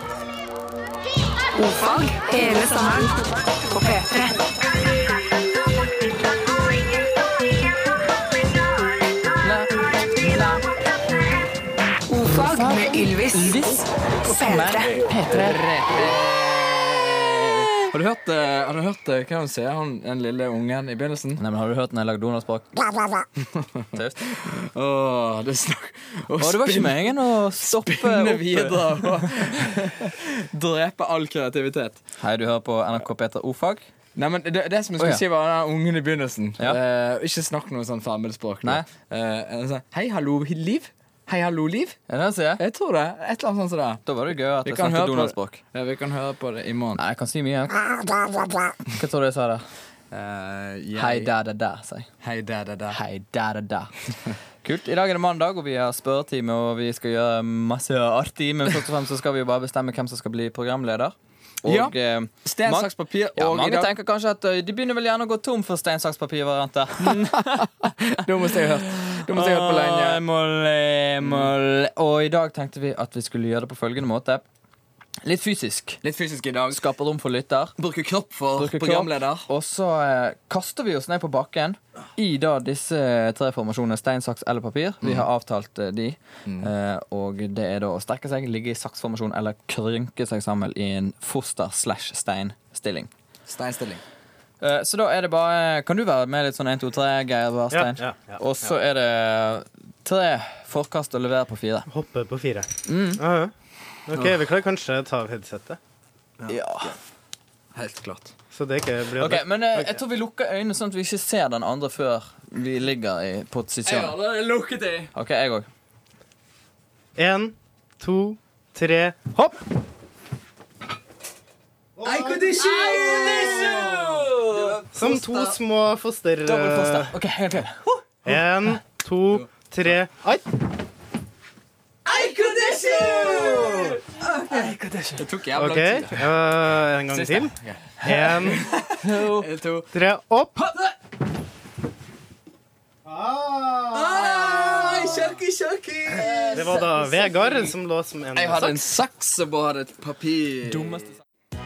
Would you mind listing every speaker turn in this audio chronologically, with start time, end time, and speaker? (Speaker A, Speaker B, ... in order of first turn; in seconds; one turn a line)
Speaker A: 1.5-4.4
Speaker B: 9.4-10.6
Speaker A: 12.1-14.9
Speaker B: 12.4-13.8
Speaker B: 14.4-15.6
Speaker C: 15.2-21.4
Speaker B: 21.4-23.2
Speaker B: 23.9-24.4
Speaker C: 24.2-32.0
Speaker B: 26.4-29.9
Speaker B: 32.2-33.9
Speaker C: 34.1-42.0
Speaker B: 42.1-42.6
Speaker C: 42.6-44.0
Speaker B: 44.0-45.6
Speaker C: 44.6-47.0
Speaker B: 46.9-49.7
Speaker C: 50.1-51.3
Speaker B: 50.9-52.1
Speaker C: 52.2-53.0
Speaker B: 52.9-53.9
Speaker B: 54.6-67.9
Speaker C: 61.6-61.9
Speaker C: 62.4-63.9
Speaker C: 67.0-70.2
Speaker B: 68.4-74.4
Speaker C: 71.2-71.5
Speaker B: 75.2-76.0
Speaker C: 76.0-76.8
Speaker B: 76.7-77.8
Speaker C: 77.8-79.5
Speaker B: 78.6-93.1
Speaker C: 93.5-94.0
Speaker B: 94.6-101.9
Speaker D: 97.7-98.4
Speaker D: 101.9-103.5
Speaker B: 102.9-103.2
Speaker D: 104.1-105.8
Speaker C: 106.4-106.9
Speaker B: 106.5-106.9
Speaker C: 107.7-108.3
Speaker D: 108.5-110.0
Speaker B: 109.2-114.2
Speaker C: 113.8-115.1
Speaker B: 115.1-115.7
Speaker D: 117.2-119.6
Speaker D: 122.0-122.6
Speaker C: 122.0-125.5
Speaker B: 122.6-125.4
Speaker D: 123.3-123.7
Speaker D: 124.9-127.1
Speaker B: 126.5-128.1
Speaker D: 128.2-130.4
Speaker B: 132.1-135.2
Speaker C: 132.1-134.0
Speaker C: 135.2-136.3
Speaker D: 135.5-138.7
Speaker C: 137.1-139.9
Speaker B: 138.0-139.5
Speaker D: 139.9-140.5
Speaker D: 143.0-144.1
Speaker C: 143.9-146.8
Speaker B: 144.0-145.2
Speaker B: 146.1-147.3
Speaker D: 146.5-148.8
Speaker C: 148.3-150.9
Speaker B: 150.6-151.2